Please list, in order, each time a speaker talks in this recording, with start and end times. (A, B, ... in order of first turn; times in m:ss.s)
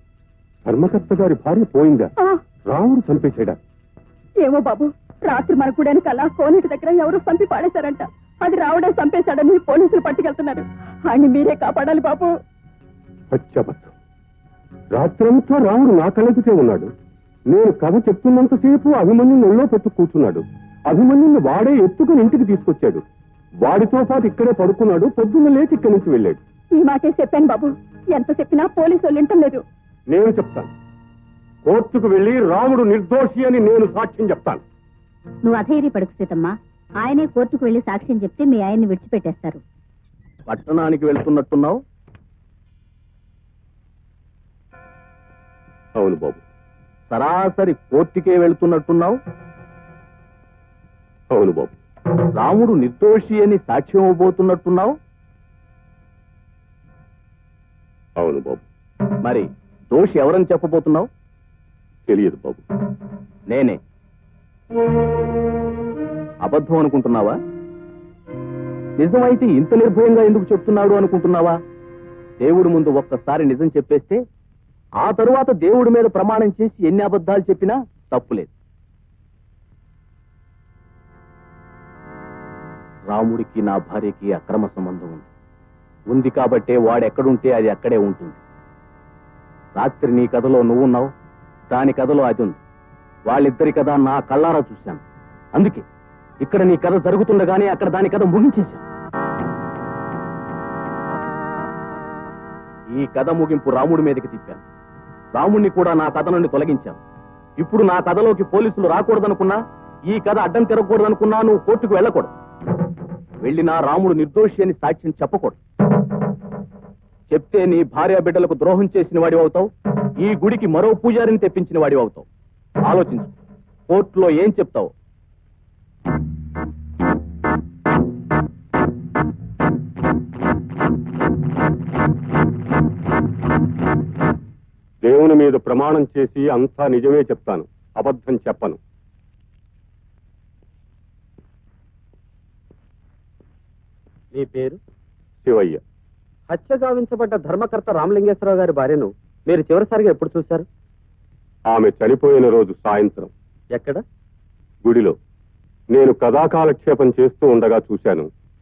0:00.6-0:02.1 A
0:02.7-0:03.6 A
0:04.4-0:12.3 B
0:13.3-0:13.9 A
0:14.9-0:16.9 A
0:17.5-0:23.0 A
0:23.6-0:26.4 A
0:26.8-0:29.6 B
0:30.1-0:30.7 A
0:31.6-0:34.6 A
0:35.4-0:39.6 C
0:40.5-0:41.8 D
0:46.0-0:46.4 A
0:47.1-0:49.2 D
0:51.3-0:51.7 A
0:52.4-0:55.0 D
0:58.2-0:58.6 A
0:59.2-1:01.1 D
1:02.1-1:02.6 A
1:03.5-1:03.8 D
1:06.4-1:07.4 D
1:09.0-1:11.6 D
1:12.4-1:14.2 D
1:15.0-1:18.5 D
1:23.1-1:25.3 D
1:26.1-1:28.4 D
1:29.8-1:31.1 D
1:31.7-1:32.6 D
1:33.2-1:35.0 D
1:35.6-1:35.8 D
1:36.4-1:38.8 D
1:42.9-1:44.6 D
1:45.3-1:47.0 D
1:47.6-1:52.3 D
1:53.4-1:55.6 D
1:57.3-2:02.2 D
2:02.8-2:03.3 D
2:03.9-2:04.9 D
2:15.0-2:18.8 A
2:24.3-2:24.8 E
2:25.4-2:25.8 A
2:26.5-2:30.7 E
2:31.7-2:33.3 A
2:33.7-2:34.0 E
2:34.8-2:35.2 A
2:35.9-2:38.3 A